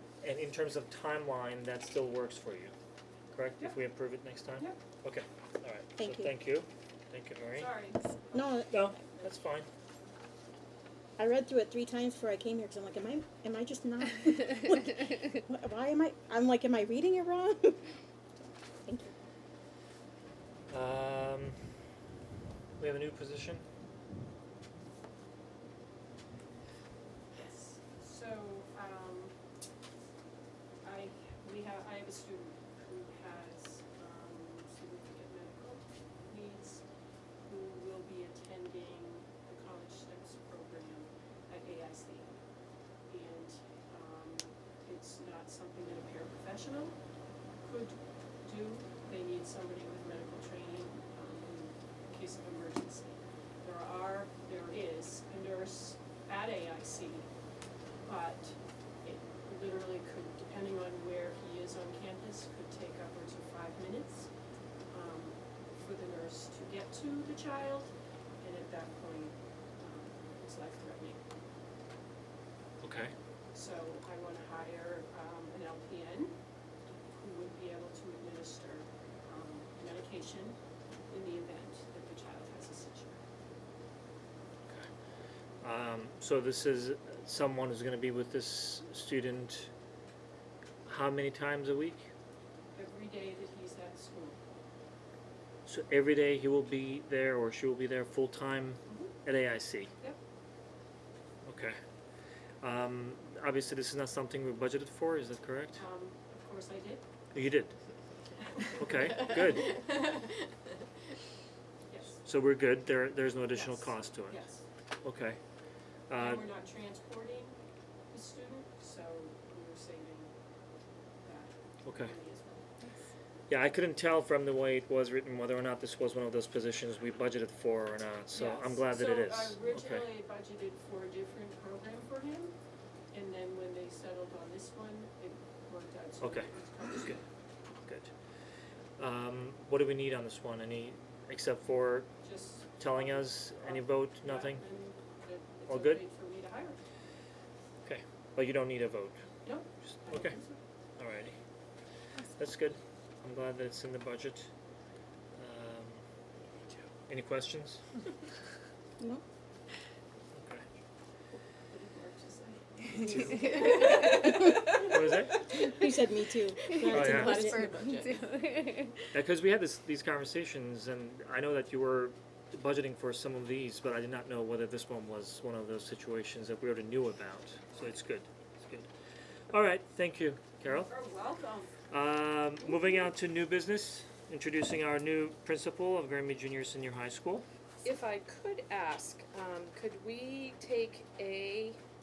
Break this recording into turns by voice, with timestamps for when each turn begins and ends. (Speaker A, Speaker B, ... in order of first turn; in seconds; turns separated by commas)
Speaker A: 0.2-2.7, Speaker A: 3.3-7.8, Speaker B: 6.0-6.4, Speaker C: 7.5-9.3, Speaker B: 8.3-8.8, Speaker A: 8.7-9.7, Speaker B: 11.2-17.9, Speaker B: 18.9-19.1, Speaker A: 20.7-21.6, Speaker A: 22.8-23.6, Speaker C: 27.3-29.3, Speaker C: 30.8-36.8, Speaker C: 37.5-42.3, Speaker C: 43.1-47.0, Speaker C: 47.6-57.3, Speaker C: 58.0-64.3, Speaker C: 64.9-67.9, Speaker C: 68.4-71.2, Speaker A: 72.8-73.1, Speaker C: 73.5-76.3, Speaker C: 77.1-80.6, Speaker C: 81.1-83.2, Speaker A: 85.6-89.7, Speaker A: 90.9-92.1, Speaker C: 92.8-94.4, Speaker A: 95.7-99.9, Speaker C: 98.9-99.1, Speaker A: 101.5-101.8, Speaker A: 102.6-105.8, Speaker C: 105.8-107.0, Speaker A: 107.3-107.7, Speaker A: 108.6-109.8, Speaker D: 109.7-110.3, Speaker C: 111.9-112.2, Speaker A: 112.2-114.5, Speaker C: 113.5-114.6, Speaker A: 115.0-115.4, Speaker A: 116.1-116.5, Speaker C: 116.2-117.5, Speaker C: 118.1-120.3, Speaker C: 121.2-122.7, Speaker A: 121.8-122.1, Speaker A: 123.5-130.1, Speaker C: 128.3-132.5, Speaker C: 133.1-137.2, Speaker A: 136.2-137.2, Speaker A: 137.8-138.1, Speaker A: 139.0-142.1, Speaker C: 142.2-146.8, Speaker A: 142.8-144.6, Speaker A: 145.7-146.0, Speaker A: 147.8-149.2, Speaker C: 149.4-150.6, Speaker A: 150.1-150.4, Speaker A: 151.0-151.4, Speaker A: 152.4-154.5, Speaker A: 155.4-156.0, Speaker A: 157.1-157.8, Speaker A: 160.4-160.7, Speaker C: 161.7-164.3, Speaker D: 163.1-164.9, Speaker B: 164.2-164.6, Speaker A: 164.7-165.5, Speaker B: 165.5-168.2, Speaker D: 166.7-169.1, Speaker A: 166.9-167.5, Speaker A: 169.1-178.9, Speaker A: 179.5-180.9, Speaker C: 180.9-181.7, Speaker A: 181.9-187.5, Speaker D: 187.8-191.8